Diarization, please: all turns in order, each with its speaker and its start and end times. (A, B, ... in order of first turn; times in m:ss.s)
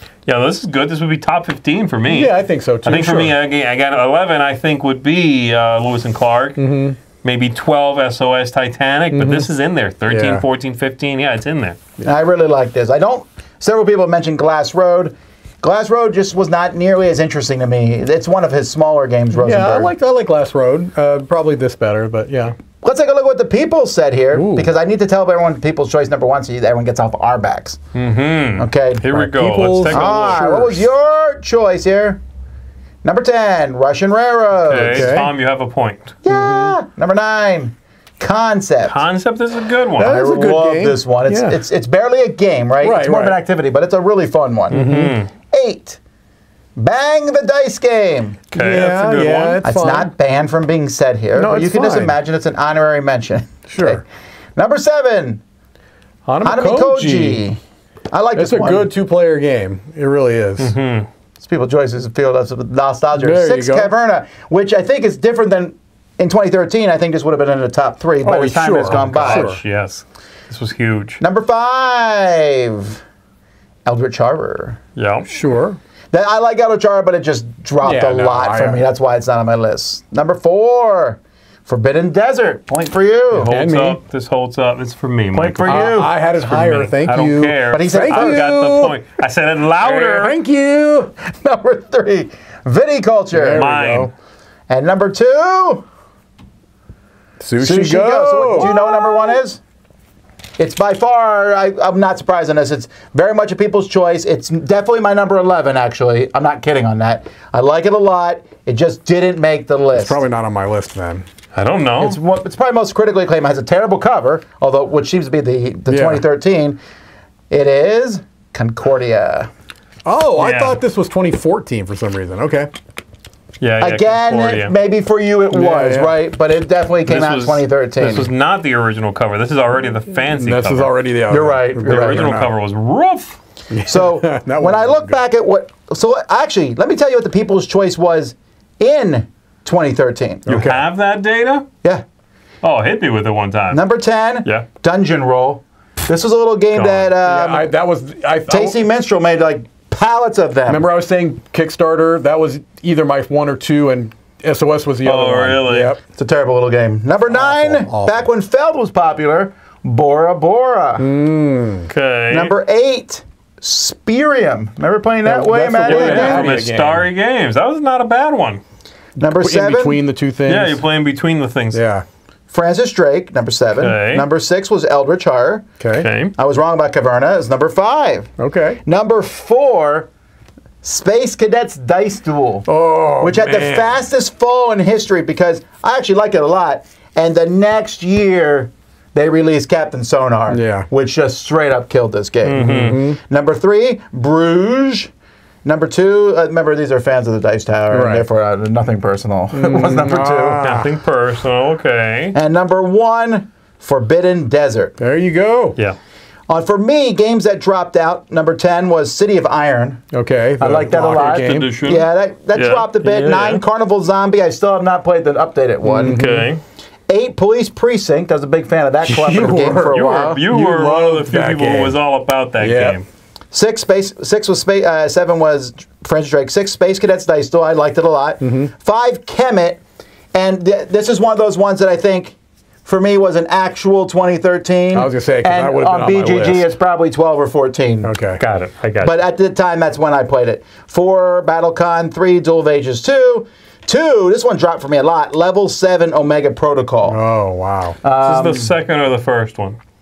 0:00.2-0:06.6 A
0:02.1-0:03.3 B
0:06.6-0:07.0 B
0:07.2-0:11.8 A
0:09.1-0:09.5 B
0:10.1-0:10.4 B
0:12.0-0:19.9 C
0:19.3-0:22.6 B
0:22.8-0:27.8 C
0:24.3-0:24.7 B
0:27.9-0:30.4 A
0:28.6-0:29.1 C
0:29.1-0:30.9 B
0:29.9-0:32.2 C
0:33.0-0:35.2 C
0:34.6-0:36.2 A
0:34.9-0:35.3 B
0:36.2-0:39.0 C
0:36.3-0:36.8 B
0:38.8-0:40.1 A
0:40.0-0:41.6 B
0:40.0-0:44.8 C
0:42.8-0:43.4 B
0:44.7-0:45.2 B
0:44.7-0:45.3 A
0:45.5-0:46.0 C
0:46.8-0:48.4 C
0:48.5-0:49.6 A
0:48.5-0:50.1 B
0:49.6-0:54.0 C
0:51.3-0:52.2 B
0:53.7-0:54.0 B
0:54.6-0:55.4 C
0:56.2-0:57.4 B
0:56.4-0:57.6 C
0:58.1-0:58.9 C
0:58.3-1:00.7 B
1:00.6-1:01.1 A
1:01.4-1:09.5 C
1:03.2-1:03.9 B
1:08.2-1:09.6 B
1:08.9-1:11.2 A
1:11.2-1:13.0 C
1:13.8-1:14.8 C
1:15.0-1:15.3 A
1:15.3-1:15.8 B
1:16.1-1:23.5 C
1:17.8-1:18.8 B
1:23.4-1:30.4 A
1:23.4-1:24.0 B
1:25.3-1:26.1 C
1:25.6-1:29.0 B
1:27.7-1:28.4 C
1:29.8-1:31.1 B
1:31.2-1:33.6 C
1:33.3-1:34.1 B
1:33.5-1:34.1 A
1:34.7-1:35.8 C
1:37.4-1:39.3 B
1:37.6-1:39.6 C
1:40.6-1:50.2 C
1:49.9-1:51.2 B
1:51.5-1:52.2 A
1:52.0-1:56.8 C
1:55.9-1:56.2 B
1:57.5-1:59.5 C
2:00.0-2:02.7 B
2:00.4-2:00.8 A
2:03.6-2:04.7 A
2:03.8-2:08.3 C
2:05.5-2:06.2 B
2:07.0-2:10.9 A
2:10.3-2:12.5 B
2:11.3-2:12.4 C
2:11.8-2:13.4 A
2:13.7-2:15.2 B
2:13.8-2:20.5 C
2:20.5-2:20.8 B
2:20.5-2:21.7 A
2:22.6-2:23.8 A
2:23.7-2:27.7 C
2:26.7-2:27.1 A
2:27.2-2:28.8 B
2:28.5-2:30.8 C
2:30.7-2:36.0 B
2:35.0-2:36.0 A
2:36.1-2:41.1 C
2:37.3-2:38.3 B
2:41.0-2:41.9 B
2:41.9-2:42.5 A
2:42.3-2:46.5 C
2:45.2-2:47.0 B
2:45.8-2:48.6 A
2:49.2-2:50.0 C
2:49.2-2:50.8 B
2:50.5-2:51.8 A
2:51.7-2:52.0 B
2:52.5-2:55.6 C
2:53.8-2:54.3 A
2:55.8-2:56.1 B
2:55.9-2:56.3 A
2:56.4-2:58.3 C
2:58.4-2:58.8 B
2:58.8-3:00.1 C
3:00.8-3:02.7 C
3:02.6-3:04.0 B
3:03.2-3:15.1 C
3:10.5-3:10.9 B
3:12.4-3:13.1 A
3:12.6-3:13.2 B
3:15.6-3:20.6 C
3:17.9-3:18.2 B
3:19.5-3:20.9 B
3:20.6-3:22.4 A
3:22.3-3:25.0 C
3:25.0-3:25.8 B
3:26.5-3:30.0 C
3:30.1-3:31.7 B
3:30.6-3:36.2 C
3:30.9-3:33.6 A
3:35.8-3:36.5 B
3:36.1-3:36.6 A
3:37.1-3:40.4 C
3:39.0-3:42.0 B
3:39.8-3:43.0 A
3:42.6-3:43.0 B
3:43.5-3:49.8 C
3:48.4-3:48.7 B
3:50.3-3:58.1 C
3:54.9-3:56.7 B
3:58.0-3:58.4 B
3:58.4-3:59.1 A
3:59.0-4:07.2 C
4:07.0-4:08.0 B
4:08.0-4:08.7 C
4:08.2-4:09.8 A